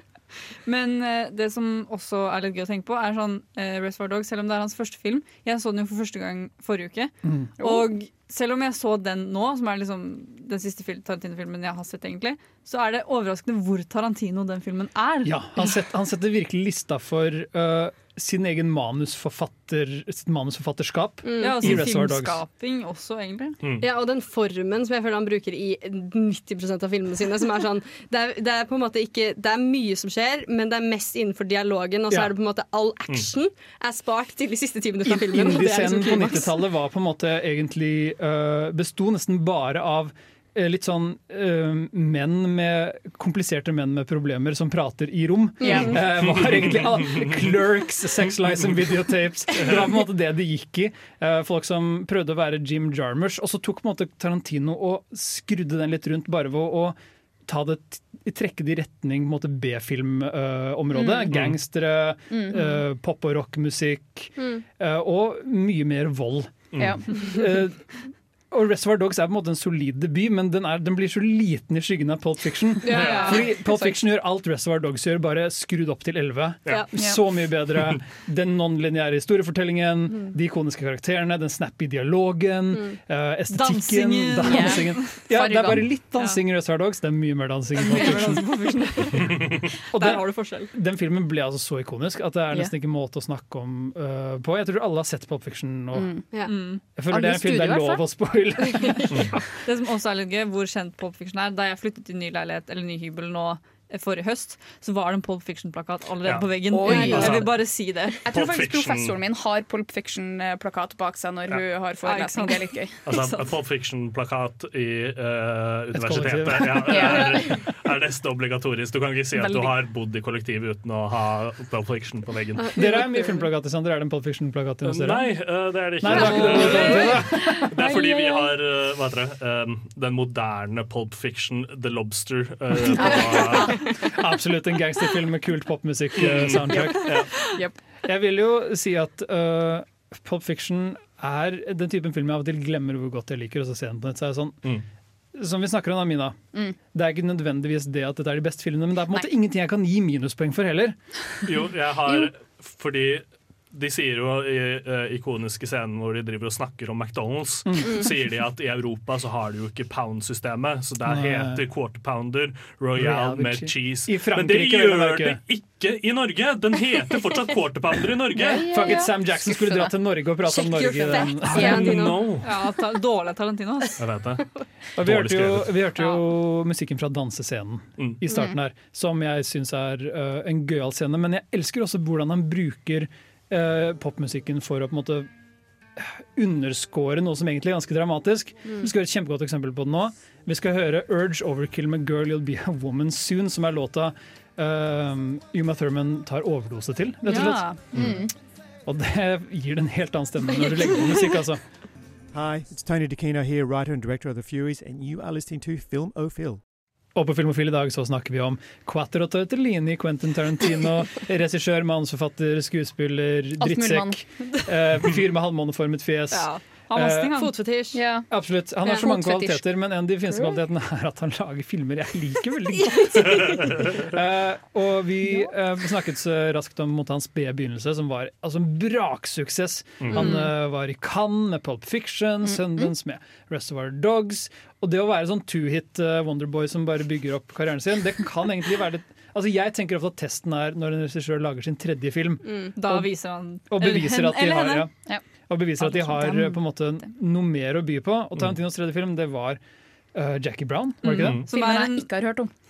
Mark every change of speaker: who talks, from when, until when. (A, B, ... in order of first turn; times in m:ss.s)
0:00.6-0:15.4 A
0:07.2-0:07.5 B
0:07.6-0:07.9 C
0:15.2-0:22.4 B
0:21.2-0:21.6 D
0:21.4-0:23.6 A
0:23.6-0:23.9 E
0:23.8-0:36.5 D
0:35.0-1:28.5 B
0:45.6-0:46.0 D
0:45.6-0:46.0 C
0:46.2-0:47.4 E
1:00.9-1:01.3 C
1:02.3-1:02.8 C
1:04.4-1:04.6 D
1:06.8-1:07.4 C
1:12.8-1:14.0 C
1:12.9-1:13.3 E
1:12.9-1:13.3 D
1:13.0-1:13.3 A
1:16.9-1:17.2 C
1:23.5-1:25.1 A
1:24.4-1:25.9 C
1:27.7-1:30.7 A
1:29.9-1:36.2 B
1:35.9-1:36.2 C
1:36.4-1:38.0 A
1:37.0-1:39.5 B
1:37.1-1:37.9 C
1:39.6-1:48.2 A
1:46.7-1:47.5 C
1:46.8-1:47.5 D
1:47.1-1:47.5 E
1:48.2-1:53.0 C
1:48.3-1:49.2 E
1:52.0-1:53.5 A
1:53.0-2:02.7 E
1:55.9-1:57.3 B
1:56.9-1:57.6 C
1:59.3-1:59.7 C
2:02.6-2:03.3 D
2:02.7-2:07.7 B
2:04.8-2:13.8 E
2:06.1-2:06.9 A
2:07.5-2:08.5 C
2:12.9-2:17.3 B
2:13.0-2:13.7 C
2:16.2-2:17.3 E
2:16.7-2:17.8 C
2:18.0-2:24.6 B
2:25.3-2:26.4 B
2:26.9-2:31.0 B
2:31.4-2:48.6 E
2:37.7-2:38.2 B
2:41.0-2:41.6 B
2:42.9-2:45.4 B
2:48.4-2:49.9 C
2:48.4-2:52.1 B
2:50.4-2:52.4 D
2:51.5-2:52.1 C
2:51.6-2:52.5 E
2:52.4-2:54.0 A
2:54.0-2:54.4 E
2:55.0-3:05.3 B
2:55.0-2:55.7 E
2:58.3-2:58.6 C
3:06.0-3:18.2 B
3:08.6-3:08.9 D
3:17.2-3:17.8 A
3:17.9-3:18.3 C
3:18.8-3:21.6 B
3:22.3-3:26.6 F
3:27.1-3:37.5 B
3:33.6-3:34.2 C
3:36.3-3:37.6 A
3:37.3-3:38.0 D
3:37.9-3:38.3 C
3:38.3-4:03.1 B
3:38.8-3:39.6 C
3:50.1-3:50.4 D
3:50.1-3:50.5 C
3:52.5-3:52.9 C
4:02.4-4:02.7 D
4:02.8-4:04.9 A
4:03.6-4:04.9 B
4:05.5-4:09.6 B
4:05.8-4:06.8 A
4:10.1-4:11.4 B
4:11.0-4:12.1 A
4:11.2-4:11.4 E
4:11.5-4:12.5 C